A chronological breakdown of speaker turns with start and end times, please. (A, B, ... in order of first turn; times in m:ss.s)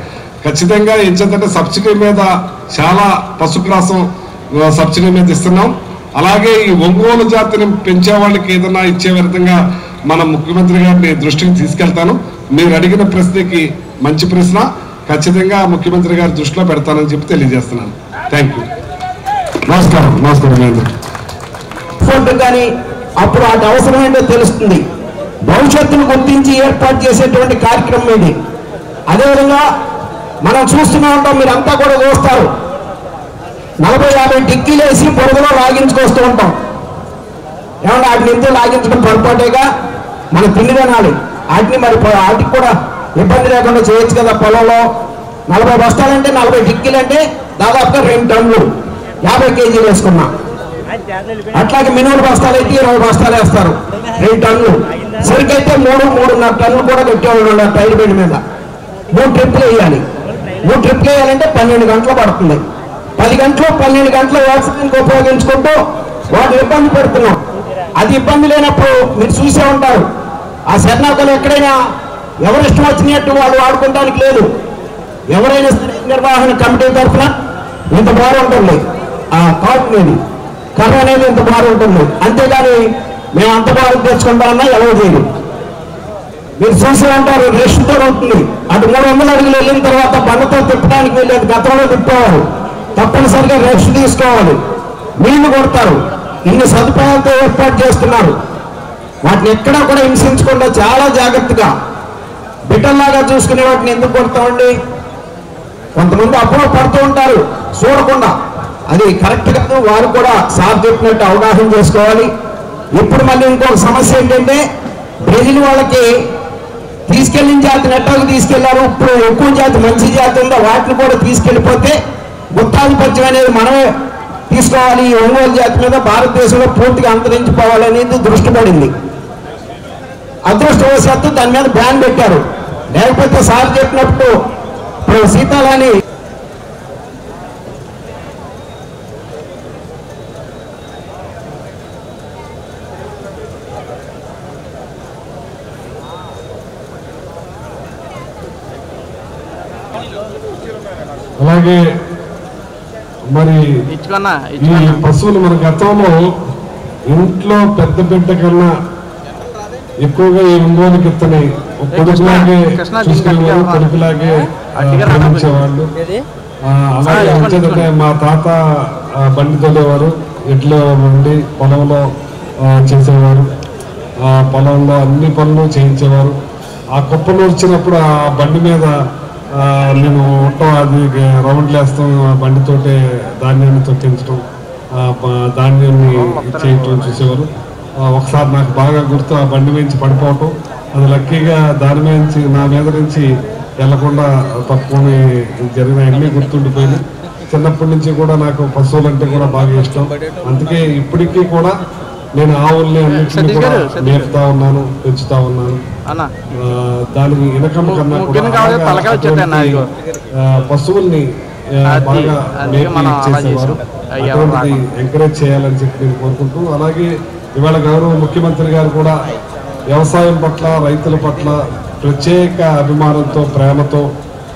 0:00.4-0:04.1 A
0:04.6-0:18.7 A
0:19.7-0:20.9 A
0:19.7-0:20.0 B
0:22.0-0:22.7 B
0:23.2-0:24.8 B
0:25.5-0:28.4 B
0:29.1-0:29.6 B
0:30.4-0:32.5 B
0:33.8-0:36.6 B
0:37.8-0:39.7 B
0:40.3-0:44.8 B
0:45.5-0:48.7 B
0:49.2-0:50.3 B
0:51.5-0:58.4 B
0:59.1-1:00.0 B
1:00.6-1:02.6 B
1:03.2-1:05.8 B
1:06.3-1:07.4 B
1:08.0-1:10.0 B
1:10.7-1:11.7 B
1:12.4-1:14.5 B
1:15.3-1:17.3 B
1:17.9-1:18.8 B
1:19.3-1:20.2 B
1:20.8-1:22.8 B
1:23.3-1:25.2 B
1:26.6-1:32.4 B
1:33.0-1:34.6 B
1:35.2-1:38.4 B
1:39.2-1:41.7 B
1:42.7-1:44.7 B
1:46.0-1:48.3 B
1:48.9-1:52.3 B
1:53.0-1:54.6 B
1:55.2-1:56.1 B
1:57.1-2:02.0 B
2:02.5-2:03.8 B
2:04.5-2:08.9 B
2:10.5-2:14.3 B
2:15.1-2:16.0 B
2:31.4-2:31.8 A
2:33.3-2:33.6 A
2:33.9-2:35.0 C
2:34.6-2:36.2 A
2:37.1-2:38.7 A
2:40.0-2:45.9 A
2:41.9-2:43.9 C
2:44.8-2:46.2 C
2:46.7-2:52.1 A
2:47.1-2:47.9 C
2:52.6-2:53.5 A
2:54.2-2:56.4 A
2:57.0-2:58.9 A
2:59.6-3:04.4 A
3:05.0-3:07.5 A
3:06.1-3:07.2 C
3:08.0-3:13.3 A
3:13.8-3:21.8 A
3:22.4-3:25.8 A
3:23.3-3:24.3 C
3:26.6-3:29.8 A
3:27.8-3:29.9 C
3:30.4-3:31.3 A
3:31.9-3:34.9 C
3:31.9-3:39.2 A
3:39.9-3:44.1 A